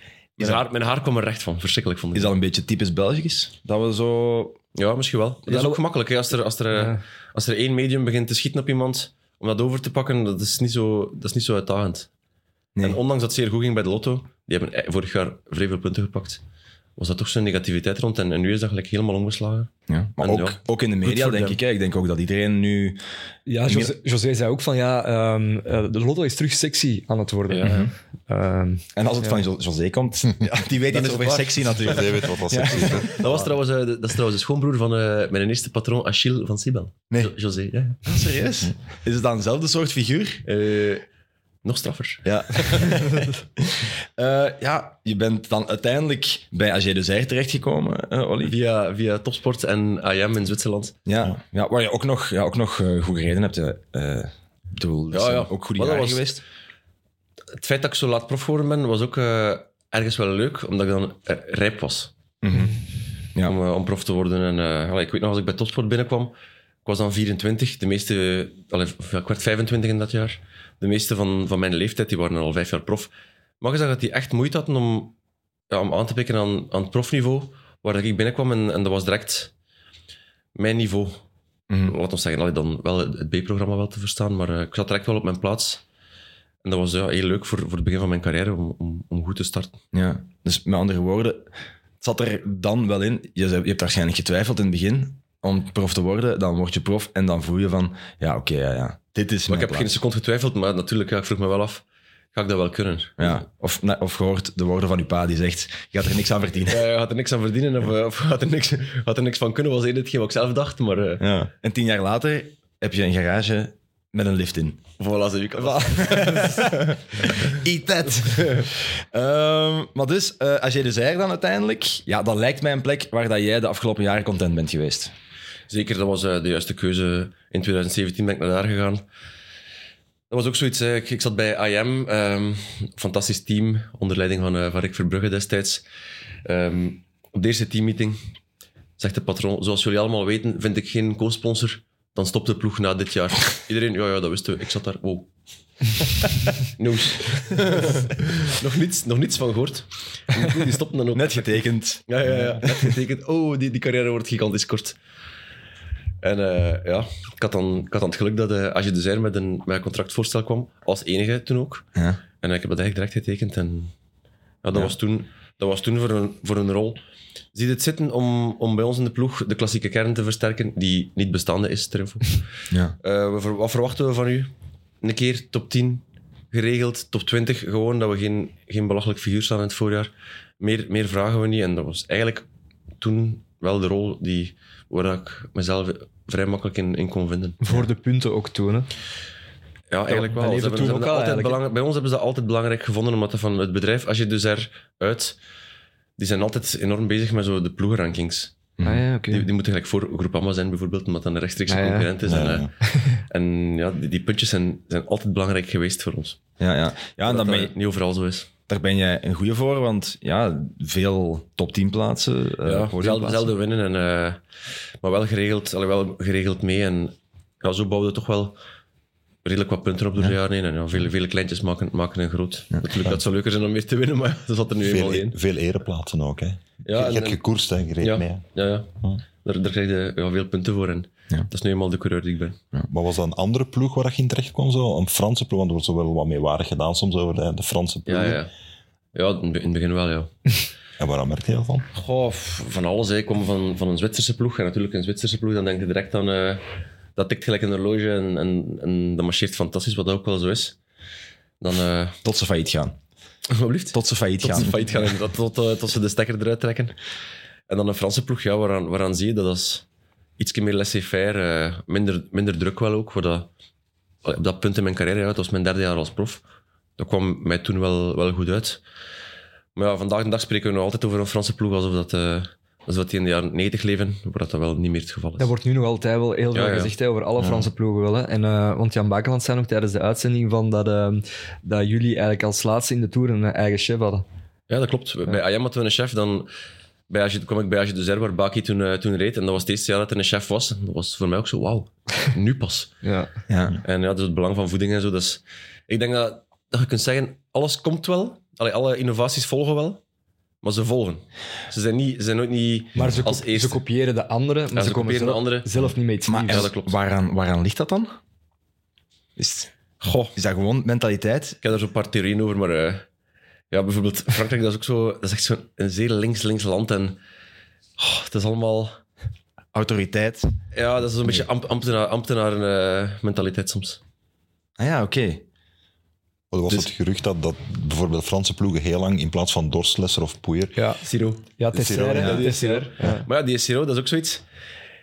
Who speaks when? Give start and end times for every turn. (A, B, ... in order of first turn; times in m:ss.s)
0:00.4-0:02.3 A
0:02.1-0:04.6 B
0:04.8-0:12.1 A
0:06.7-0:07.0 C
0:12.8-0:16.4 A
0:17.0-0:21.6 A
0:19.9-0:23.0 B
0:23.5-0:29.4 C
0:23.7-0:23.9 B
0:27.5-0:27.9 A
0:27.7-0:27.9 B
0:29.0-0:33.5 B
0:30.9-0:38.0 A
0:31.8-0:33.2 D
0:38.0-0:40.4 B
0:40.4-0:41.1 A
0:41.6-0:43.0 A
0:42.2-0:48.6 B
0:48.4-0:51.0 A
0:51.1-0:56.4 B
0:55.1-0:56.4 A
0:57.6-1:02.1 A
1:02.4-1:02.7 B
1:02.5-1:02.8 C
1:03.4-1:06.3 A
1:06.8-1:15.2 A
1:15.7-1:19.5 A
1:20.6-1:21.2 A
1:21.7-1:22.0 B
1:21.8-1:25.8 A
1:26.6-1:29.8 A
1:29.9-1:40.0 B
1:39.5-1:43.3 A
1:43.2-1:46.8 B
1:46.7-1:51.3 A
1:51.2-1:54.8 B
1:55.0-1:57.4 A
1:55.6-2:05.1 B
1:58.4-1:58.6 A
2:05.7-2:09.0 A
2:10.3-2:15.8 A
2:16.4-2:18.2 A
2:19.0-2:25.3 A
2:26.7-2:35.0 A
2:31.1-2:33.0 B
2:36.2-2:41.9 A
2:42.4-2:43.9 A
2:44.6-2:47.0 A
2:47.5-2:54.5 A
2:55.0-3:02.4 A
3:03.0-3:07.8 A
3:07.6-3:08.9 C
3:09.9-3:15.4 A
3:10.1-3:11.6 C
3:16.2-3:18.6 A
3:18.8-3:19.0 B
3:18.8-3:19.4 C
3:19.3-3:26.4 A
3:21.7-3:22.1 C
3:22.3-3:22.7 D
3:22.8-3:23.2 C
3:26.6-3:27.7 B
3:27.3-3:28.5 A
3:28.7-3:33.5 B
3:32.6-3:34.4 A
3:35.0-3:38.6 A
3:39.4-3:45.4 A
3:44.8-3:48.5 D
3:46.8-3:47.4 A
3:48.0-3:52.6 A
3:52.9-3:58.4 D
3:58.1-3:58.5 A
3:59.1-4:00.6 A
4:01.0-4:01.9 D
4:01.9-4:06.6 A
4:07.2-4:10.8 A
4:11.6-4:12.2 A
4:12.2-4:13.0 B
4:13.5-4:17.0 A
4:13.9-4:15.0 B
4:17.7-4:19.8 A
4:20.4-4:23.5 A
4:24.2-4:26.4 A
4:27.0-4:28.8 A
4:29.8-4:35.5 A
4:35.4-4:44.2 C
4:36.5-4:36.9 A
4:37.4-4:37.7 D
4:44.7-4:46.5 A
4:47.1-4:52.9 A
4:53.0-4:53.3 C
4:53.5-4:53.8 B
4:53.8-5:00.0 A
5:00.6-5:03.8 A
5:03.0-5:06.7 C
5:04.7-5:05.7 A
5:06.3-5:08.2 B
5:06.4-5:07.0 A
5:09.4-5:09.7 B
5:10.0-5:10.3 A
5:10.3-5:11.6 B
5:11.6-5:13.1 A
5:13.7-5:17.2 A
5:18.0-5:19.0 A
5:19.7-5:20.5 B
5:20.7-5:24.0 A
5:24.8-5:25.4 B
5:26.5-5:30.8 D
5:30.8-5:33.3 C
5:31.0-5:34.4 A
5:31.7-5:32.5 D